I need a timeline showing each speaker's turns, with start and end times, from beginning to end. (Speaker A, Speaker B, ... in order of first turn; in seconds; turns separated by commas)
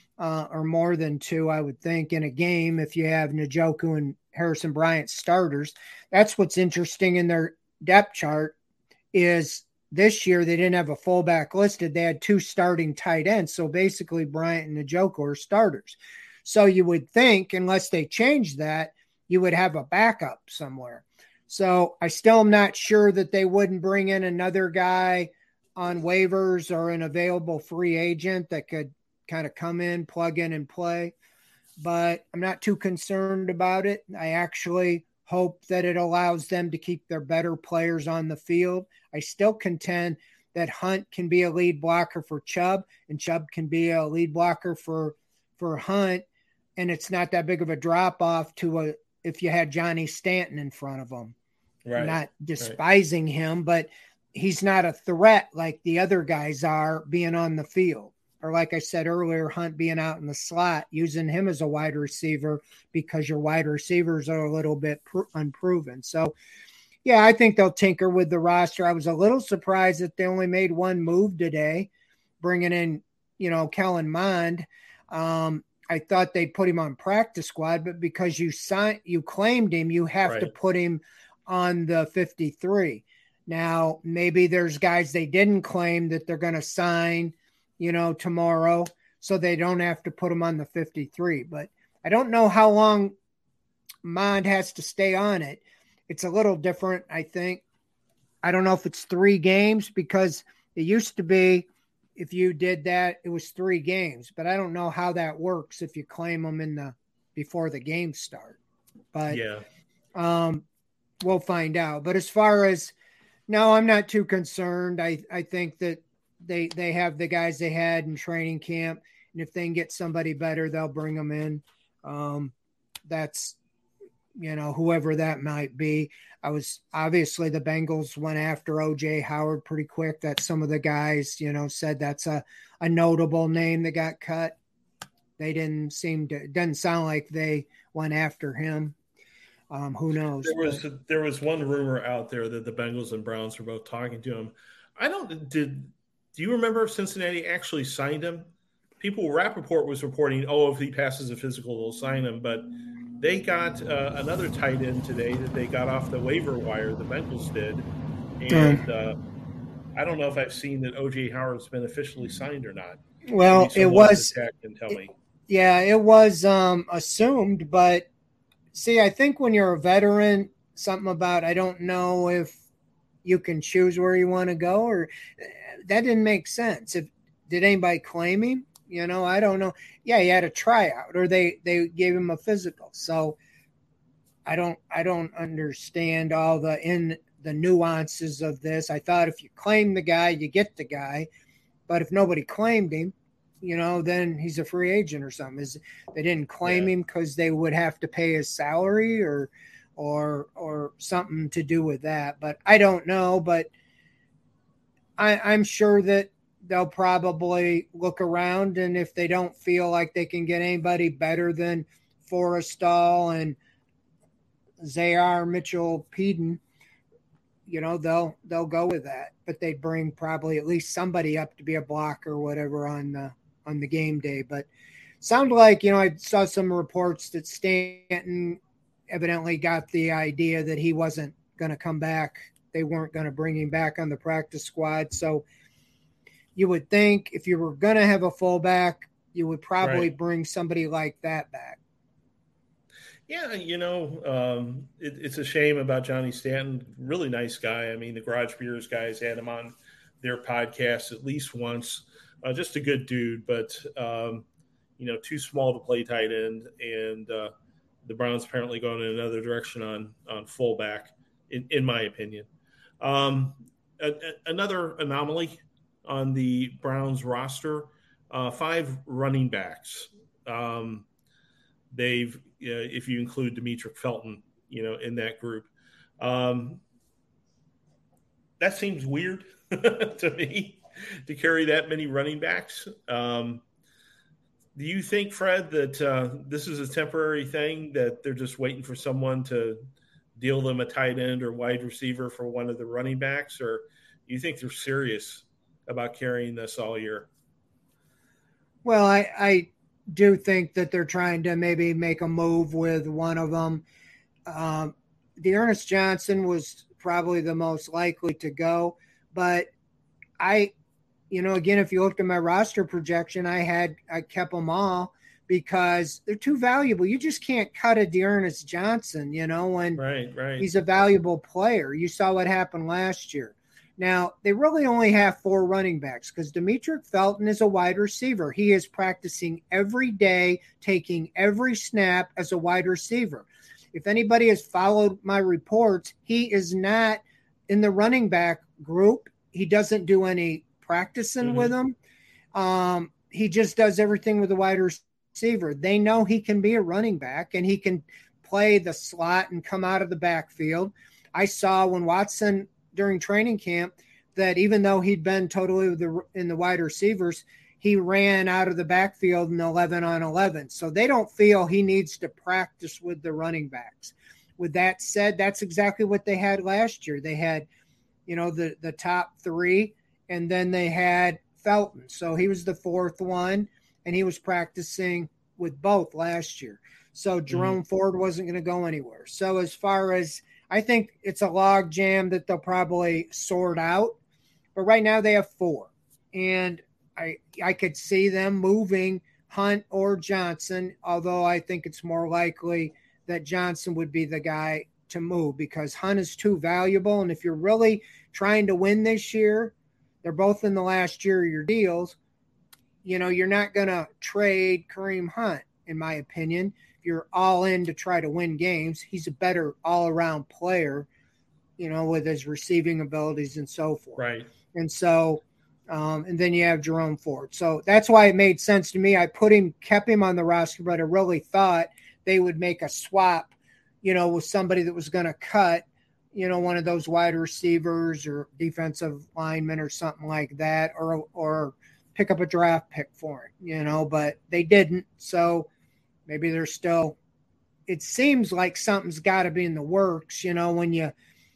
Speaker A: 0.2-8.6, Speaker A: 9.1-31.1, Speaker A: 31.8-46.2, Speaker A: 46.8-51.3, Speaker B: 51.9-52.8, Speaker A: 52.0-66.3, Speaker A: 67.0-71.9, Speaker A: 72.4-93.1, Speaker B: 80.2-80.5, Speaker A: 94.0-97.6, Speaker A: 98.4-108.6, Speaker A: 109.1-109.4, Speaker B: 109.3-109.6, Speaker A: 110.2-110.6, Speaker A: 111.2-112.9, Speaker A: 113.5-122.5, Speaker A: 123.1-123.6, Speaker A: 124.4-134.6, Speaker A: 135.4-139.0, Speaker A: 139.7-140.8, Speaker B: 140.4-148.5, Speaker B: 149.0-157.9, Speaker B: 158.4-159.2, Speaker A: 158.5-158.8, Speaker B: 160.0-165.1, Speaker A: 163.3-164.3, Speaker A: 165.5-168.1, Speaker A: 168.7-172.6, Speaker A: 173.2-183.4, Speaker A: 184.5-191.3, Speaker A: 191.9-203.7, Speaker B: 196.7-196.9, Speaker A: 205.2-213.6, Speaker A: 214.8-216.6, Speaker A: 217.7-224.7, Speaker A: 225.2-228.6, Speaker A: 229.1-235.4, Speaker A: 236.6-241.8, Speaker B: 239.8-240.1, Speaker B: 243.3-254.4, Speaker B: 255.0-257.5, Speaker B: 258.1-262.5, Speaker B: 263.0-271.1, Speaker B: 271.9-275.7, Speaker B: 276.2-276.8, Speaker B: 278.6-283.6, Speaker B: 284.8-289.8, Speaker B: 290.4-297.3, Speaker A: 298.9-303.8, Speaker A: 304.5-309.7, Speaker A: 310.4-310.7, Speaker A: 311.3-320.0, Speaker B: 320.0-320.7, Speaker A: 320.6-341.9, Speaker B: 341.4-341.7, Speaker A: 342.5-367.7, Speaker A: 368.3-384.2, Speaker B: 377.5-377.8, Speaker A: 384.8-402.2, Speaker A: 403.0-411.1, Speaker A: 411.8-414.2, Speaker B: 414.2-414.5, Speaker A: 414.7-423.5, Speaker A: 424.0-435.7, Speaker A: 436.3-437.2, Speaker A: 437.9-441.1